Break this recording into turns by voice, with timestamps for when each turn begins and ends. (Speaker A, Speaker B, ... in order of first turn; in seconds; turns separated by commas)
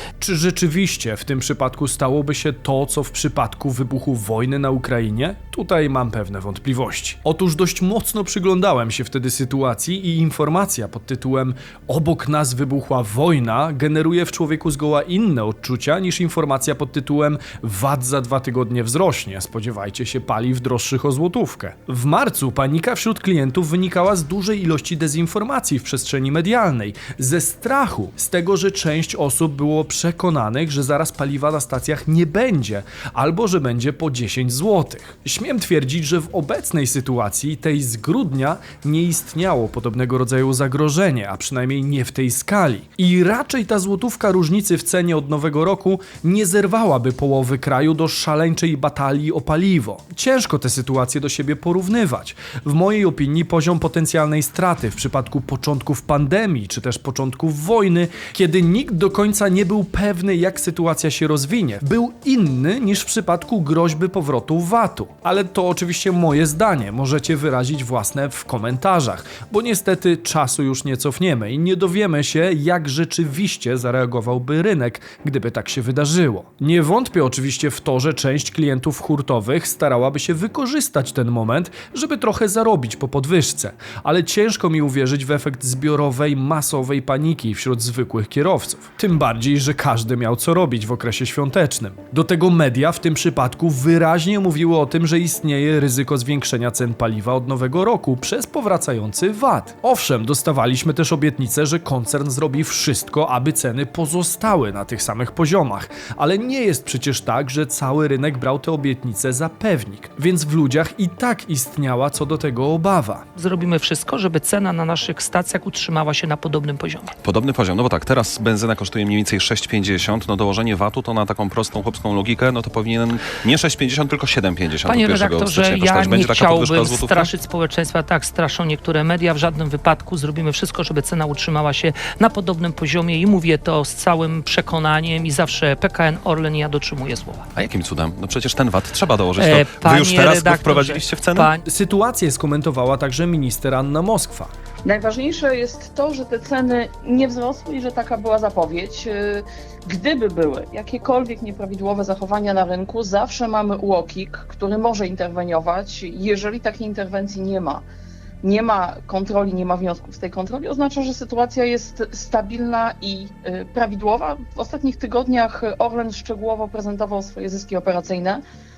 Speaker A: 0.2-113.2, Speaker B: 113.4-117.1, Speaker C: 117.2-127.3, Speaker B: 124.8-137.5, Speaker C: 137.5-141.5, Speaker B: 139.4-141.6, Speaker A: 141.6-144.5, Speaker D: 144.8-157.8, Speaker D: 158.4-168.4